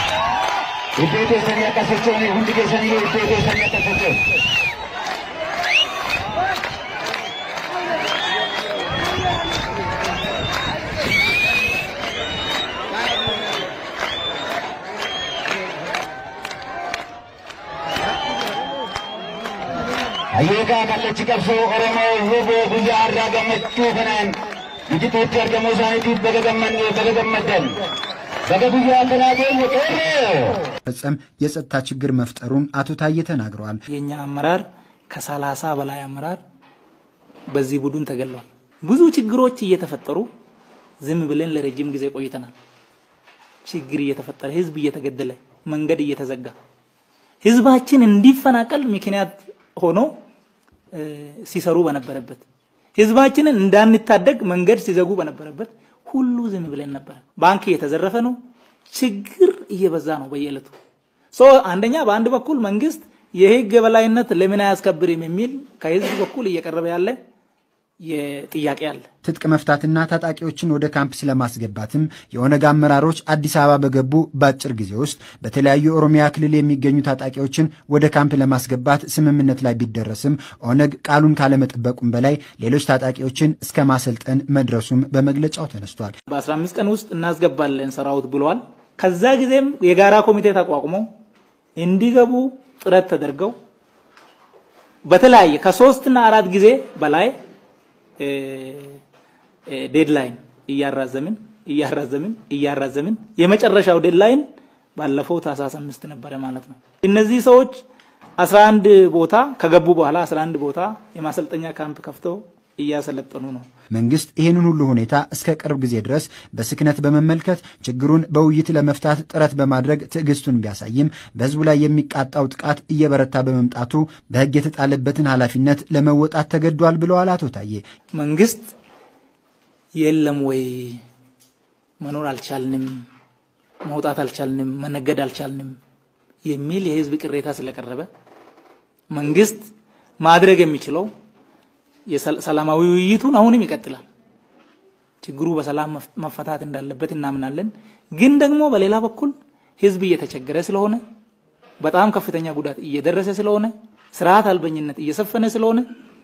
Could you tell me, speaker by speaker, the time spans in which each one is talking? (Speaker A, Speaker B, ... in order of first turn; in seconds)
Speaker A: 1.0-4.2, 20.3-27.8, 28.5-30.6
Speaker B: 30.9-33.8, 69.2-86.1, 113.9-127.8
Speaker C: 33.9-36.4, 37.5-40.3, 41.0-42.5, 43.7-46.5, 47.4-50.2, 50.9-52.5, 53.0-60.7, 61.3-67.2, 68.0-69.1, 86.3-91.1, 91.8-93.5, 95.1-97.3, 98.2-99.0, 99.7-107.8, 108.4-113.7, 128.2-128.7, 130.0-131.0, 132.0-133.1, 133.8-135.8, 136.5-138.1, 139.1-139.7, 140.2-141.1, 142.1-144.1, 145.2-151.0, 151.8-155.9